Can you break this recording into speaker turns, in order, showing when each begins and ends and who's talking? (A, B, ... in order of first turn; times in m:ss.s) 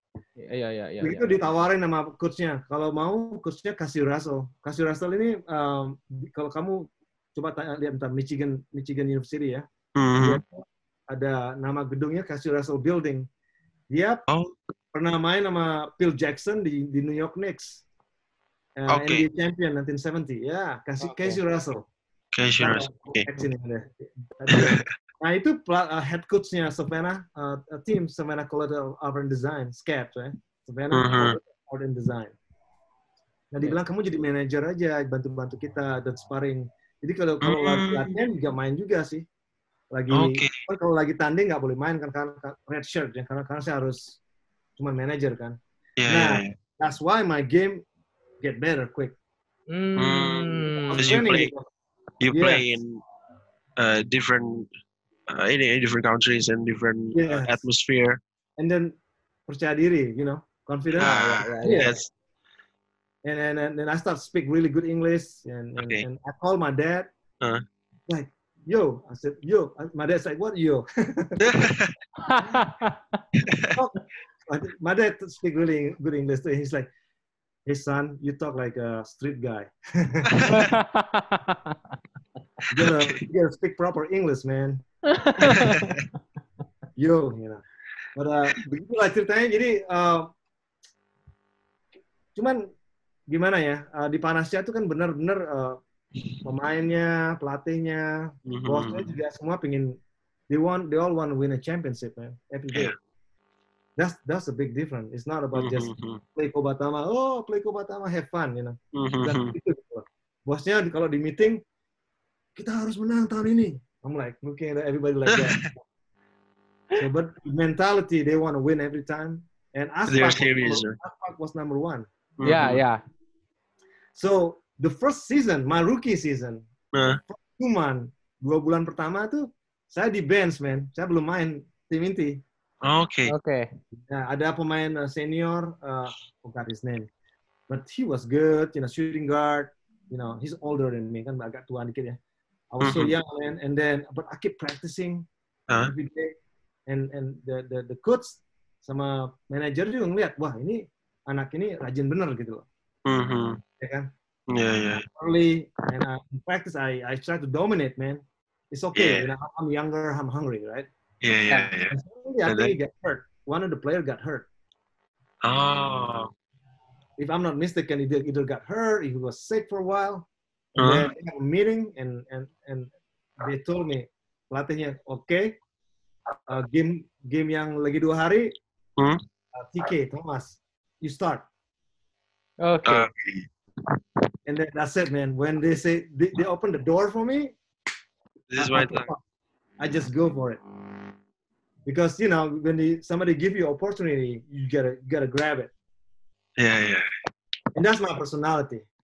0:00.4-0:01.3 A
0:01.0-0:09.7 B
0:10.0-0:10.4 C
0:10.2-0:13.3 B
0:13.9-0:14.2 B
0:14.9-0:17.8 B
0:18.8-0:21.8 B
0:18.9-0:19.2 C
0:21.0-0:21.4 A
0:22.3-0:23.3 C
0:22.6-0:32.4 B
0:24.5-0:24.9 C
0:30.9-0:31.4 C
0:33.5-0:39.2 B
0:37.4-0:38.2 C
0:39.9-0:44.2 B
0:40.1-0:40.5 C
0:44.8-0:45.6 B
0:46.0-0:46.5 C
0:46.1-0:47.8 B
0:48.4-0:49.1 B
0:49.7-0:51.2 A
0:50.0-0:51.5 C
0:50.9-0:51.7 B
0:52.2-0:53.0 C
0:52.3-0:52.6 B
0:53.8-0:54.7 C
0:55.3-0:58.2 C
0:57.1-0:57.6 B
0:58.6-0:59.0 B
0:59.5-1:02.0 B
1:01.0-1:02.1 C
1:01.0-1:01.9 A
1:03.2-1:07.1 B
1:05.8-1:06.0 C
1:08.1-1:11.5 B
1:11.4-1:11.9 C
1:12.3-1:13.0 A
1:13.4-1:13.7 C
1:13.7-1:16.9 B
1:17.7-1:20.5 B
1:20.3-1:20.7 C
1:20.5-1:21.8 A
1:22.7-1:24.8 B
1:22.8-1:23.2 C
1:25.1-1:26.0 A
1:25.4-1:25.8 C
1:27.0-1:27.6 B
1:28.2-1:30.3 B
1:32.4-1:32.7 B
1:33.3-1:35.8 B
1:36.4-1:40.0 B
1:38.5-1:39.1 C
1:40.5-1:43.0 B
1:44.0-1:51.6 B
1:45.6-1:46.2 C
1:48.9-1:49.5 C
1:52.6-1:55.8 B
1:55.3-1:55.6 C
1:57.0-2:02.1 B
2:00.1-2:01.0 C
2:02.4-2:02.8 C
2:02.4-2:03.0 A
2:04.2-2:06.7 B
2:06.9-2:07.2 C
2:07.3-2:12.4 B
2:12.8-2:13.3 C
2:13.3-2:13.7 A
2:14.1-2:17.1 B
2:17.7-2:22.2 B
2:22.7-2:25.3 B
2:22.8-2:23.1 C
2:25.8-2:26.4 B
2:26.9-2:32.7 B
2:33.1-2:33.6 C
2:33.8-2:34.1 B
2:34.5-2:35.0 C
2:35.2-2:40.9 B
2:39.0-2:39.3 C
2:41.2-2:42.0 C
2:41.9-2:44.5 B
2:42.5-2:42.8 C
2:45.4-2:46.3 C
2:47.2-2:55.6 B
2:50.8-2:51.1 C
2:56.5-2:58.5 B
2:59.6-3:01.5 B
3:02.6-3:03.1 A
3:02.8-3:03.5 C
3:04.5-3:07.6 B
3:08.5-3:09.1 C
3:08.6-3:09.2 B
3:09.8-3:10.6 B
3:11.9-3:15.7 B
3:16.6-3:17.1 C
3:17.8-3:18.8 B